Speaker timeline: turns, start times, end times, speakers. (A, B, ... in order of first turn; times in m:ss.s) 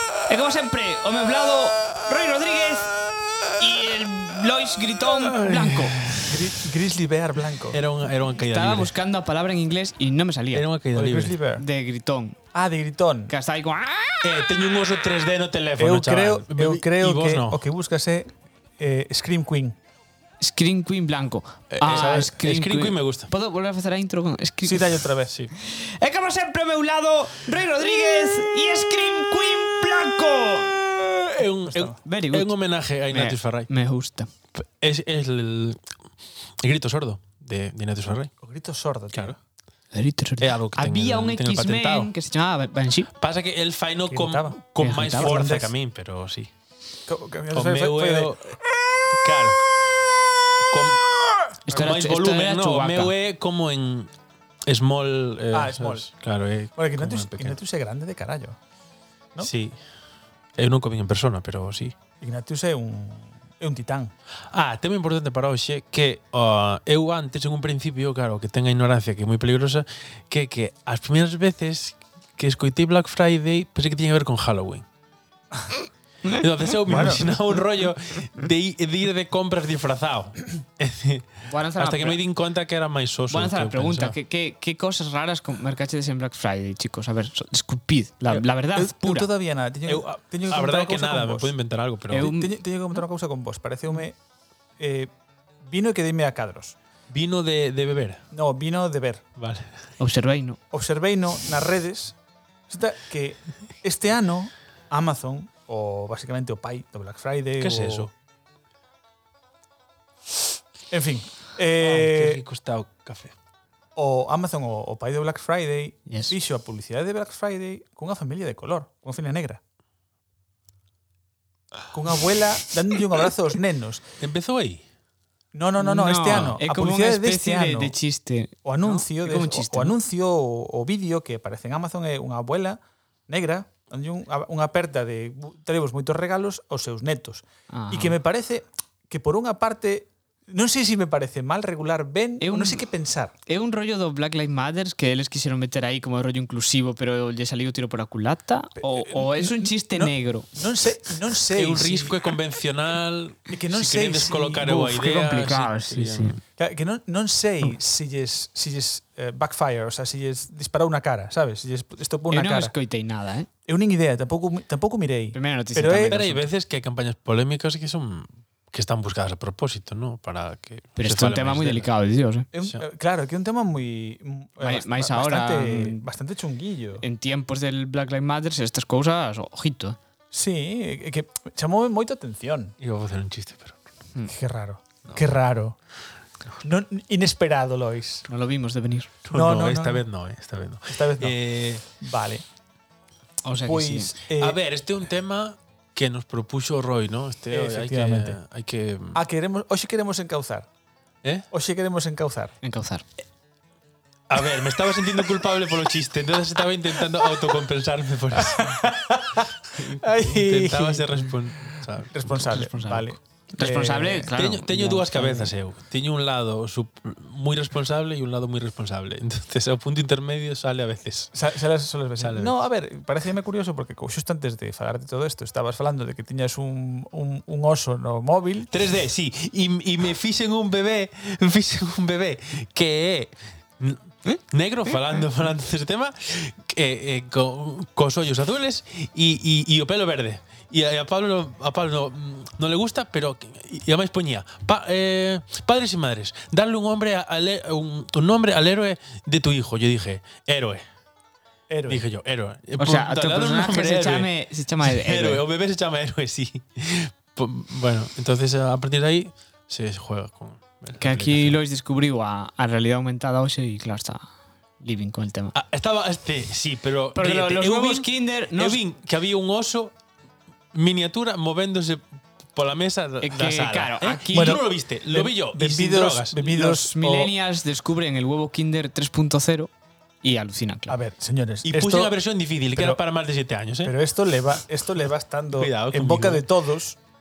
0:00.3-0:03.0 A
0:03.6-0:06.0 A
0:05.1-0:06.7 B
0:06.2-0:07.8 C
0:07.7-0:08.9 B
0:08.4-0:10.7 A
0:10.5-0:11.4 B
0:10.9-0:11.6 C
0:11.5-0:12.4 A
0:12.5-0:13.3 C
0:13.3-0:14.4 A
0:14.2-0:17.6 B
0:15.8-0:19.8 C
0:20.4-0:25.0 A
0:21.8-0:23.3 B
0:21.8-0:22.4 C
0:24.6-0:25.3 C
0:25.6-0:31.2 A
0:31.3-0:33.7 B
0:31.6-0:32.0 C
0:32.0-0:32.5 A
0:33.1-0:34.3 A
0:34.5-0:35.9 B
0:36.6-0:38.3 B
0:38.4-0:39.4 C
0:39.9-0:43.1 A
0:40.4-0:42.1 B
0:43.2-0:46.5 B
0:44.1-0:44.6 C
0:44.8-0:45.4 A
0:45.1-0:45.7 C
0:47.1-0:48.3 C
0:47.5-0:48.6 B
0:49.1-0:49.6 B
0:50.7-0:51.1 B
0:51.6-0:53.1 A
0:51.7-0:54.1 B
0:54.6-0:57.6 B
0:55.5-0:56.1 C
0:56.7-0:58.6 C
0:59.4-0:59.8 B
1:00.6-1:01.9 B
1:02.2-1:04.1 C
1:04.5-1:14.8 B
1:16.3-1:24.2 B
1:16.9-1:17.4 C
1:21.5-1:22.2 A
1:23.3-1:29.3 A
1:28.7-1:31.5 C
1:29.8-1:32.3 B
1:32.1-1:32.5 A
1:32.2-1:34.2 C
1:34.8-1:35.1 C
1:35.6-1:36.8 C
1:37.1-1:38.2 B
1:38.3-1:39.2 C
1:39.4-1:39.8 B
1:40.0-1:40.6 A
1:40.7-1:42.2 C
1:42.7-1:48.1 C
1:47.6-1:48.1 B
1:50.9-1:52.4 C
1:51.8-1:53.3 B
1:54.0-1:59.6 C
1:56.1-1:56.3 A
2:01.9-2:04.0 C
2:04.2-2:04.8 B
2:05.5-2:07.9 C
2:05.8-2:09.9 A
2:08.6-2:23.3 C
2:17.7-2:18.2 A
2:22.4-2:22.8 A
2:23.5-2:30.6 A
2:28.8-2:32.2 C
2:31.5-2:36.4 B
2:33.5-2:34.8 C
2:34.6-2:36.4 A
2:36.6-2:42.7 C
2:42.3-2:43.5 A
2:43.7-2:46.2 C
2:45.3-2:46.4 A
2:46.1-2:51.9 B
2:51.0-2:52.5 A
2:52.5-2:57.0 C
2:54.6-2:56.0 A
2:57.0-3:00.0 A
3:00.3-3:02.7 C
3:02.8-3:03.8 B
3:04.3-3:05.8 C
3:06.6-3:08.2 C
3:08.2-3:09.1 A
3:09.2-3:11.8 B
3:09.3-3:10.0 C
3:10.9-3:12.4 C
3:13.4-3:14.1 A
3:13.6-3:14.6 C
3:14.3-3:19.2 B
3:17.5-3:18.4 C
3:19.1-3:20.7 C
3:21.5-3:22.5 C
3:22.6-3:23.0 A
3:24.3-3:32.6 B
3:28.4-3:31.2 C
3:32.1-3:34.3 C
3:32.5-3:35.5 A
3:34.3-3:41.3 B
3:41.3-3:48.7 C
3:42.2-3:42.5 B
3:48.7-4:10.8 B
4:11.7-4:12.0 C
4:11.9-4:14.3 B
4:12.8-4:15.4 A
4:14.8-4:21.6 B
4:20.9-4:24.2 A
4:24.8-4:25.5 A
4:25.5-4:29.9 B
4:27.1-4:28.8 A
4:30.7-4:36.5 B
4:33.2-4:34.6 A
4:34.3-4:37.3 C
4:36.4-4:39.7 A
4:40.2-4:41.0 A
4:40.9-4:42.1 C
4:41.6-4:43.9 B
4:42.7-4:43.0 C
4:43.8-4:47.0 C
4:45.5-4:46.5 B